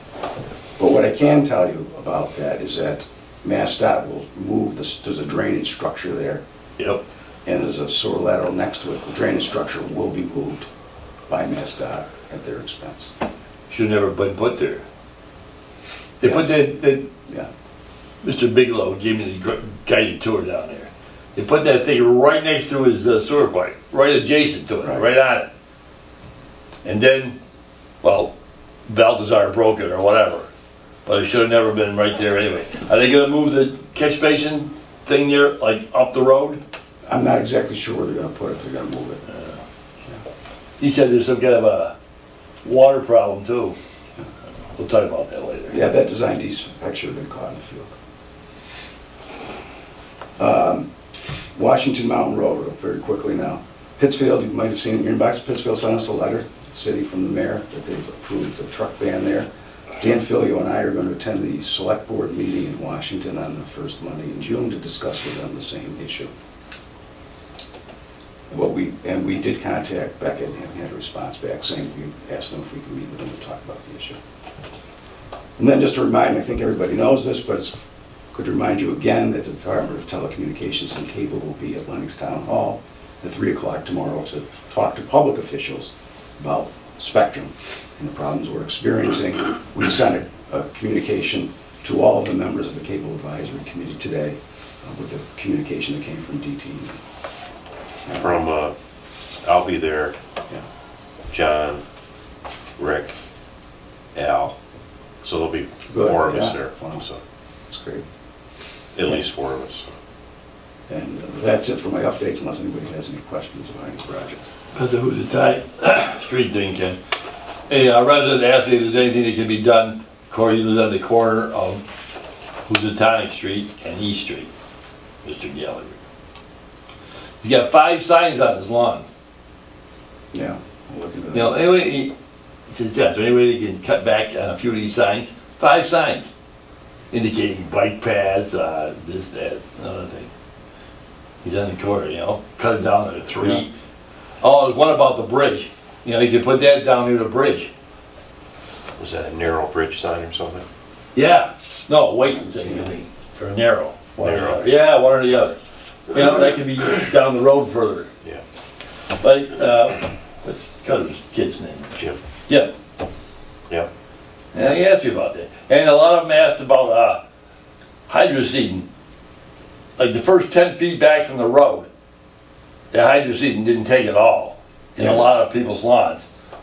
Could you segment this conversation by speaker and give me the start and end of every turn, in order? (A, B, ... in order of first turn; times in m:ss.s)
0:00.8-0:06.4 A
0:07.4-0:10.7 A
0:11.3-0:13.1 A
0:13.7-0:14.8 B
0:16.2-0:17.1 B
0:16.2-0:17.5 A
0:18.2-0:25.5 B
0:26.8-0:27.4 B
0:28.0-0:28.3 B
0:28.9-0:30.5 B
0:31.1-0:36.6 B
0:37.1-0:39.2 A
0:40.8-0:42.0 B
0:42.6-0:43.8 B
0:44.7-0:45.8 B
0:45.7-0:47.9 A
0:50.4-0:50.9 A
0:51.6-0:59.5 A
1:00.0-1:06.3 A
1:08.5-1:14.2 A
1:15.6-1:17.8 A
1:18.3-1:37.0 A
1:38.1-1:38.4 A
1:38.2-1:38.7 C
1:39.4-1:40.2 C
1:41.3-1:41.8 C
1:42.8-1:43.1 C
1:44.2-1:44.6 C
1:45.2-1:47.2 C
1:45.9-1:47.0 A
1:47.7-1:48.0 A
1:49.0-1:49.9 C
1:50.9-1:54.4 A
1:54.8-1:57.0 B
1:57.7-2:01.8 B
2:02.7-2:04.5 B
2:05.2-2:06.0 B
2:07.4-2:09.1 B
2:10.3-2:11.6 A
2:11.3-2:12.1 B
2:12.7-2:16.3 B
2:17.1-2:20.3 B
2:21.4-2:23.7 B
2:24.4-2:27.7 B
2:29.0-2:30.6 C
2:31.2-2:35.6 B
2:34.2-2:34.7 C
2:36.1-2:38.1 B
2:39.2-2:41.9 B
2:42.5-2:42.7 B
2:44.5-2:47.2 B
2:48.1-2:48.9 B
2:50.0-2:51.9 B
2:52.9-2:56.3 B
2:55.0-2:55.3 A